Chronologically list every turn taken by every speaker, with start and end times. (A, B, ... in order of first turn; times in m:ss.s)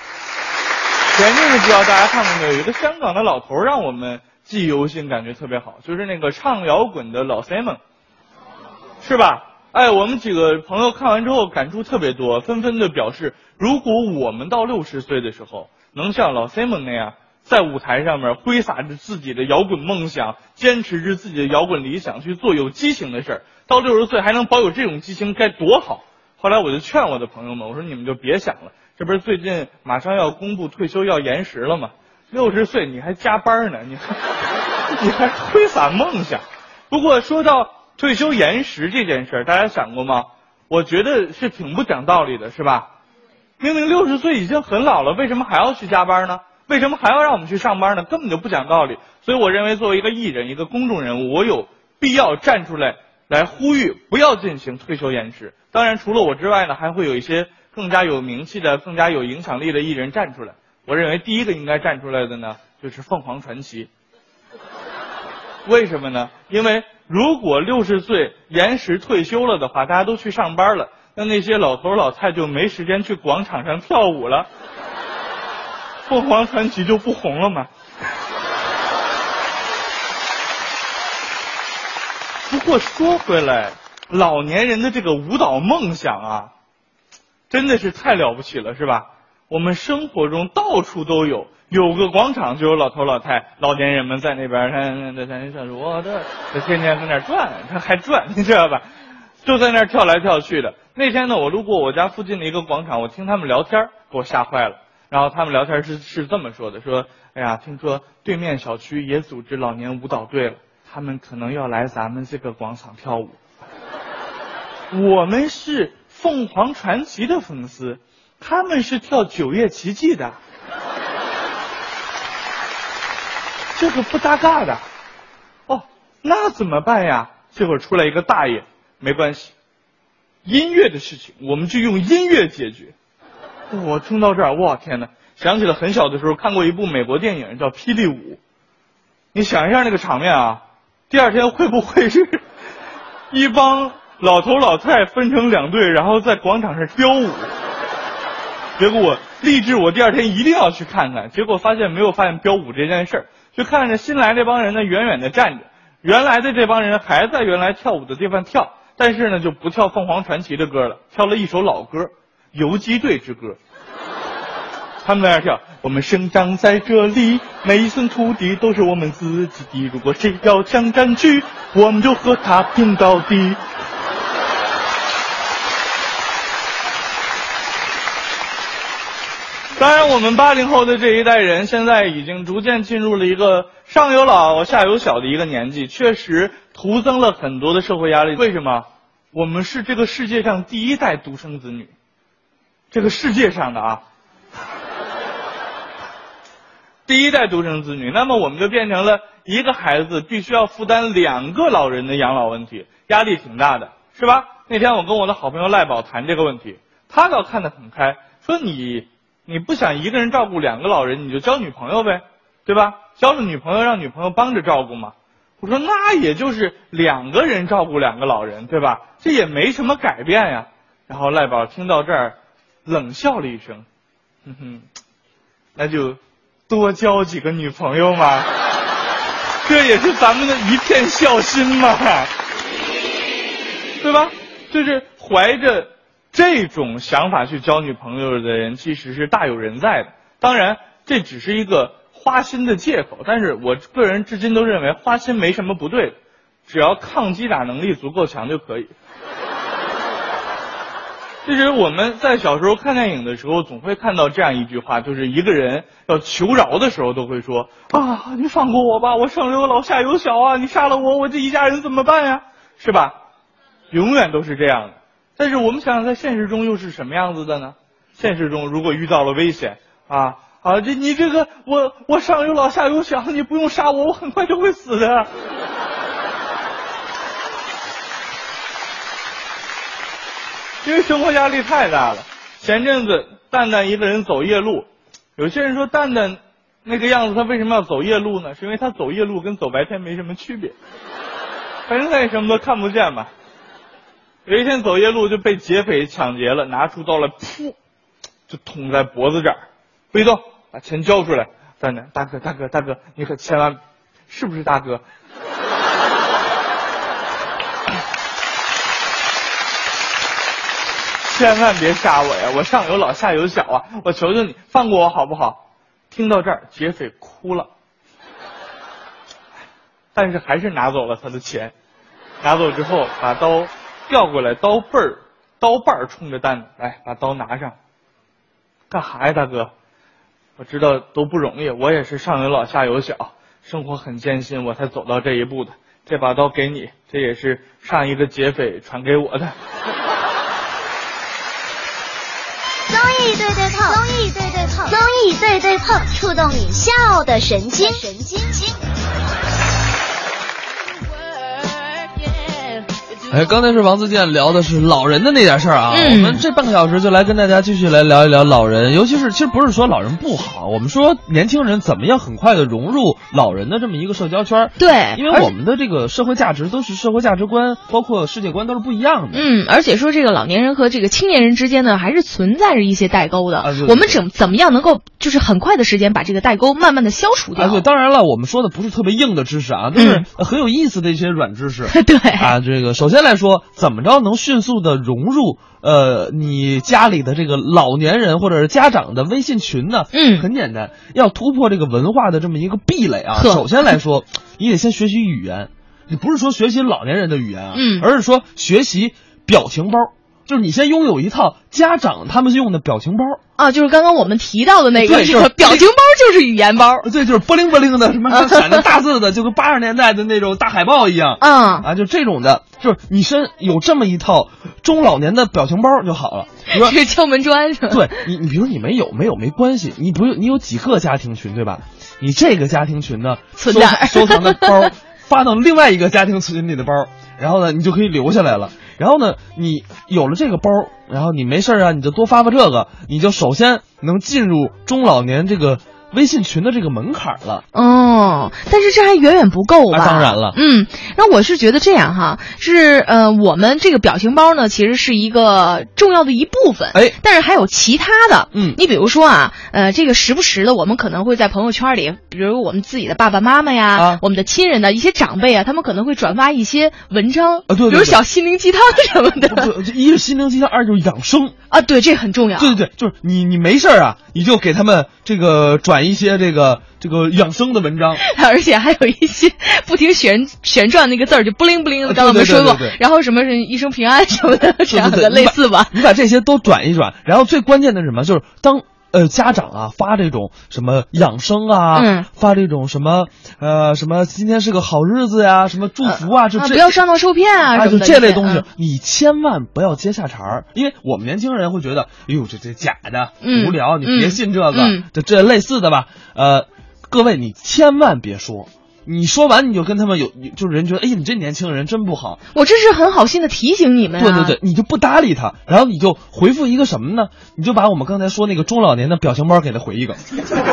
0:01.1-0:07.8 A
0:09.0-0:34.2 A
0:35.0-0:42.9 A
0:43.6-1:03.9 A
1:05.6-1:14.5 A
1:16.1-1:17.7 A
1:22.5-1:26.5 A
1:27.5-1:38.8 A
1:39.4-1:53.4 A
1:54.9-2:00.4 A
2:03.8-2:04.8 A
2:05.7-2:09.5 A
2:10.4-2:12.9 A
2:13.7-2:18.4 A
2:19.3-2:22.4 A
2:23.3-2:27.5 A
2:28.8-2:43.6 A
2:45.0-2:53.6 A
2:59.8-3:11.9 A
3:12.9-3:14.0 A
3:17.1-3:43.8 A
3:44.4-3:44.8 A
3:45.8-3:48.5 A
3:49.6-3:52.3 A
3:54.0-4:06.2 A
4:06.7-4:08.9 A
4:11.4-4:23.2 A
4:23.9-4:35.3 A
4:40.8-4:44.8 A
4:45.4-4:50.7 A
4:51.9-4:53.3 A
4:54.4-4:57.7 A
4:58.5-4:59.6 A
5:00.1-5:05.0 A
5:11.2-5:15.6 A
5:16.1-5:17.7 A
5:20.1-5:21.7 A
5:22.4-5:27.8 A
5:28.9-5:29.7 A
5:30.6-5:39.5 A
5:42.9-5:48.8 B
5:53.3-6:09.4 C
5:55.9-5:56.4 D
6:04.8-6:05.5 D
6:09.3-6:17.8 D
6:13.6-6:14.2 C
6:17.6-6:43.4 C
6:19.9-6:20.2 D
6:21.9-6:22.5 D
6:30.1-6:30.5 D
6:33.3-6:33.6 D
6:37.7-6:38.1 D
6:43.6-6:47.1 D
6:44.9-6:45.9 C
6:47.0-6:57.0 C
6:48.3-6:48.8 D
6:51.4-6:51.9 D
6:56.7-6:58.2 D
6:57.9-7:17.6 C
7:03.6-7:04.9 D
7:17.7-7:39.7 D
7:19.9-7:20.6 C
7:28.5-7:28.8 C
7:33.9-7:34.2 C
7:37.7-7:38.2 C
7:39.4-7:41.5 C
7:41.7-7:42.8 D
7:42.6-7:48.2 C
7:48.2-7:56.0 D
7:52.0-7:53.0 C
7:54.9-8:07.0 C
8:01.9-8:02.3 D
8:06.0-8:08.6 D
8:07.7-8:22.4 C
8:13.4-8:15.0 D
8:22.5-8:24.6 D
8:24.2-8:30.2 C